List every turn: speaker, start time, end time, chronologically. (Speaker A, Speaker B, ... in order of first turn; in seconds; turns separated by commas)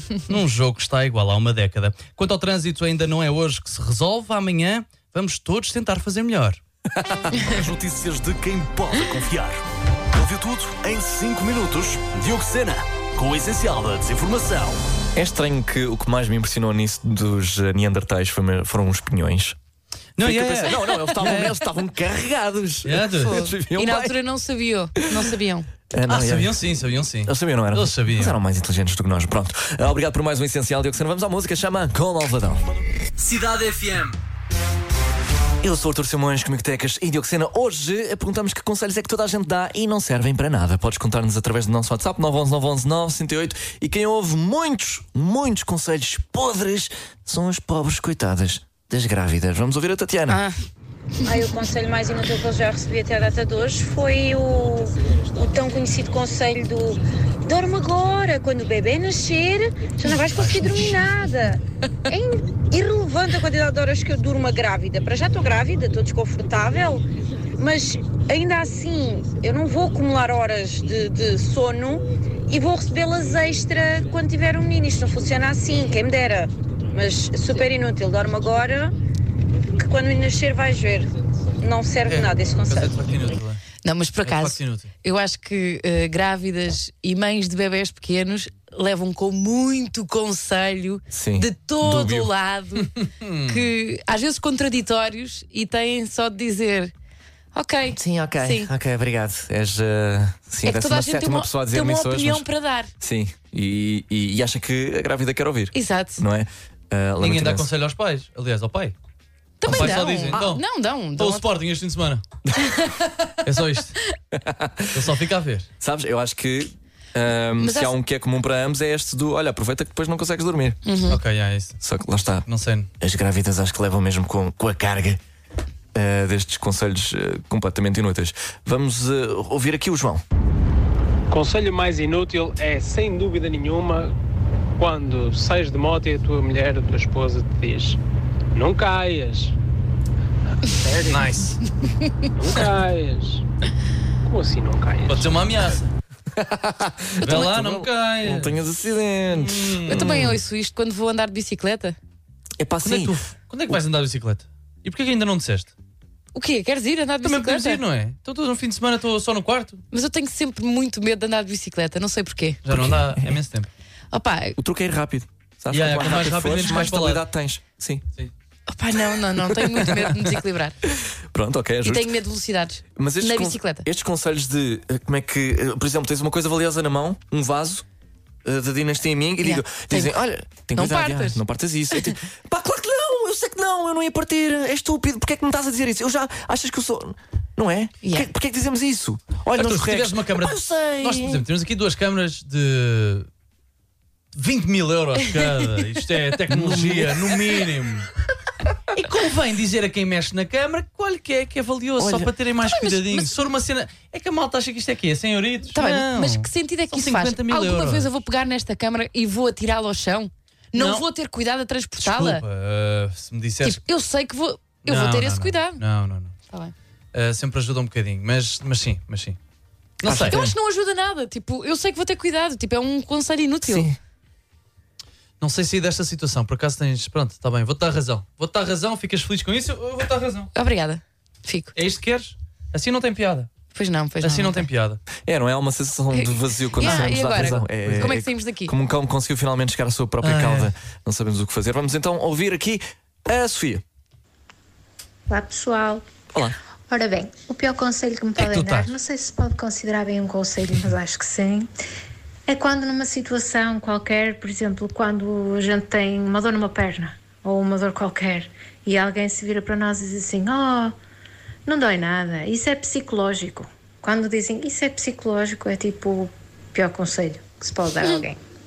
Speaker A: 0.1-6.6, Speaker B: 6.9-7.5, Speaker C: 7.3-9.6, Speaker C: 10.1-14.8, Speaker B: 15.1-19.6, Speaker A: 20.2-21.6, Speaker B: 20.2-24.2, Speaker A: 22.8-23.4, Speaker D: 23.3-25.7, Speaker B: 25.9-32.6, Speaker A: 26.1-28.4, Speaker C: 33.2-34.2, Speaker B: 35.6-50.4, Speaker D: 50.3-50.6, Speaker E: 51.2-67.0, Speaker E: 67.6-78.9, Speaker E: 79.8-83.0, Speaker A: 82.0-83.6, Speaker D: 83.8-92.9, Speaker A: 84.2-84.9, Speaker B: 91.1-92.3, Speaker A: 92.8-93.7, Speaker D: 93.5-96.9, Speaker D: 97.5-98.7, Speaker B: 97.9-102.5, Speaker D: 100.6-102.9, Speaker B: 103.0-107.7, Speaker D: 105.7-106.2, Speaker A: 107.2-108.9, Speaker D: 109.6-111.5, Speaker B: 109.7-110.5, Speaker A: 109.7-110.6, Speaker A: 111.1-112.2, Speaker D: 112.6-113.0, Speaker A: 113.4-114.0, Speaker B: 114.3-115.1, Speaker A: 114.9-115.7, Speaker B: 115.8-121.0, Speaker D: 117.6-117.9, Speaker D: 120.8-121.2, Speaker A: 121.1-121.8, Speaker B: 121.8-122.5, Speaker A: 122.5-122.9, Speaker B: 123.0-125.2, Speaker B: 125.9-130.2, Speaker F: 131.3-134.1, Speaker F: 134.8-138.0, Speaker F: 138.5-139.5, Speaker F: 140.6-141.3, Speaker A: 141.1-141.6, Speaker F: 142.4-143.4, Speaker F: 144.2-145.4, Speaker A: 145.0-145.9, Speaker B: 146.3-150.4, Speaker A: 147.2-148.6, Speaker A: 149.3-150.3, Speaker D: 149.9-152.0, Speaker B: 152.6-153.1, Speaker A: 152.8-155.7, Speaker D: 156.3-157.8, Speaker A: 157.2-159.8, Speaker D: 159.9-162.6, Speaker A: 162.6-163.7, Speaker B: 162.7-163.4, Speaker D: 164.1-164.6, Speaker B: 164.6-168.1, Speaker A: 165.7-167.2, Speaker D: 168.7-170.8, Speaker A: 169.8-170.2, Speaker B: 171.3-172.1, Speaker D: 171.8-173.8, Speaker B: 172.9-177.8, Speaker B: 178.4-191.4, Speaker D: 179.4-180.2, Speaker D: 180.7-181.4, Speaker A: 189.5-193.3, Speaker A: 194.3-198.1, Speaker B: 196.5-197.4, Speaker A: 198.9-208.1, Speaker D: 202.0-203.3, Speaker D: 205.7-212.4, Speaker A: 210.7-211.0, Speaker A: 212.0-213.8, Speaker D: 213.6-215.8, Speaker A: 214.8-216.3, Speaker A: 217.1-219.4, Speaker A: 220.0-220.4, Speaker B: 220.0-220.5, Speaker D: 220.2-223.9, Speaker B: 223.7-224.0, Speaker A: 225.4-230.5, Speaker D: 230.5-231.7, Speaker A: 231.7-233.5, Speaker D: 233.7-234.7, Speaker A: 234.2-235.0, Speaker B: 235.2-243.8, Speaker D: 236.1-238.7, Speaker A: 236.8-237.1, Speaker A: 237.8-238.1, Speaker A: 240.2-240.7, Speaker G: 245.3-246.0, Speaker G: 246.9-251.7, Speaker A: 248.3-248.9, Speaker G: 252.5-260.9, Speaker G: 261.6-268.4